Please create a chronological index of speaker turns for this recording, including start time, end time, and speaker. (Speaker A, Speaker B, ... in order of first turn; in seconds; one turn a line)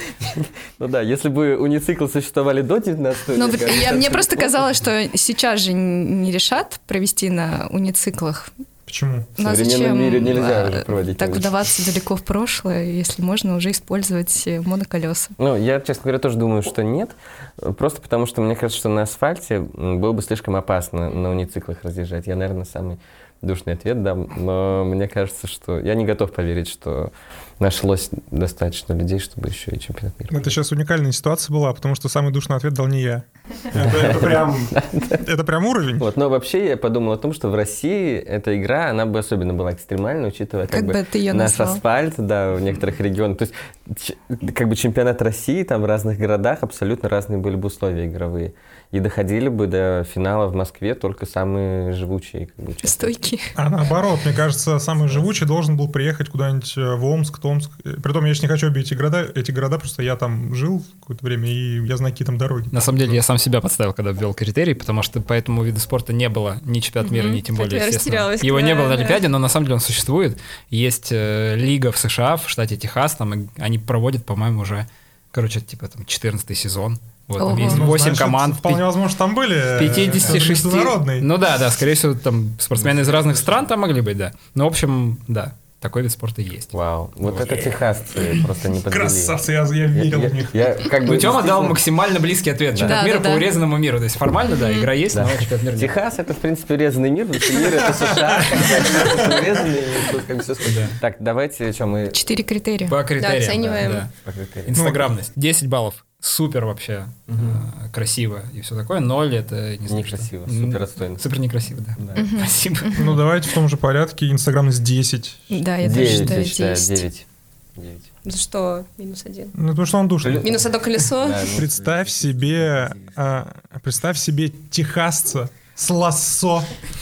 Speaker A: 0.2-4.6
Speaker B: 3.3-8.5
Speaker C: 8.9-9.3
Speaker B: 9.4-15.3
Speaker A: 9.4-11.5
Speaker A: 15.4-30.5
Speaker C: 30.3-36.1
Speaker A: 33.8-35.2
Speaker A: 36.0-53.2
Speaker B: 40.7-41.8
Speaker B: 52.8-53.5
Speaker C: 53.6-62.7
Speaker D: 62.7-78.9
Speaker E: 67.0-69.2
Speaker B: 77.4-77.8
Speaker C: 77.6-81.3
Speaker D: 79.7-87.8
Speaker A: 86.7-89.4
Speaker C: 88.9-90.8
Speaker A: 89.9-91.8
Speaker D: 91.0-96.0
Speaker B: 92.8-93.5
Speaker B: 94.5-94.9
Speaker A: 95.1-102.3
Speaker C: 97.6-99.7
Speaker D: 100.6-101.0
Speaker B: 102.1-103.0
Speaker D: 102.8-104.1
Speaker E: 103.2-104.1
Speaker A: 104.1-104.8
Speaker D: 104.7-113.2
Speaker C: 104.7-105.1
Speaker A: 107.3-107.6
Speaker A: 109.9-111.2
Speaker A: 112.0-112.3
Speaker B: 112.2-113.1
Speaker C: 112.9-115.6
Speaker B: 115.5-117.0
Speaker A: 115.8-117.3
Speaker A: 117.8-118.1
Speaker E: 118.2-119.6
Speaker C: 119.6-120.6
Speaker A: 120.2-120.6
Speaker E: 120.4-121.5
Speaker A: 121.2-121.8
Speaker C: 121.5-126.8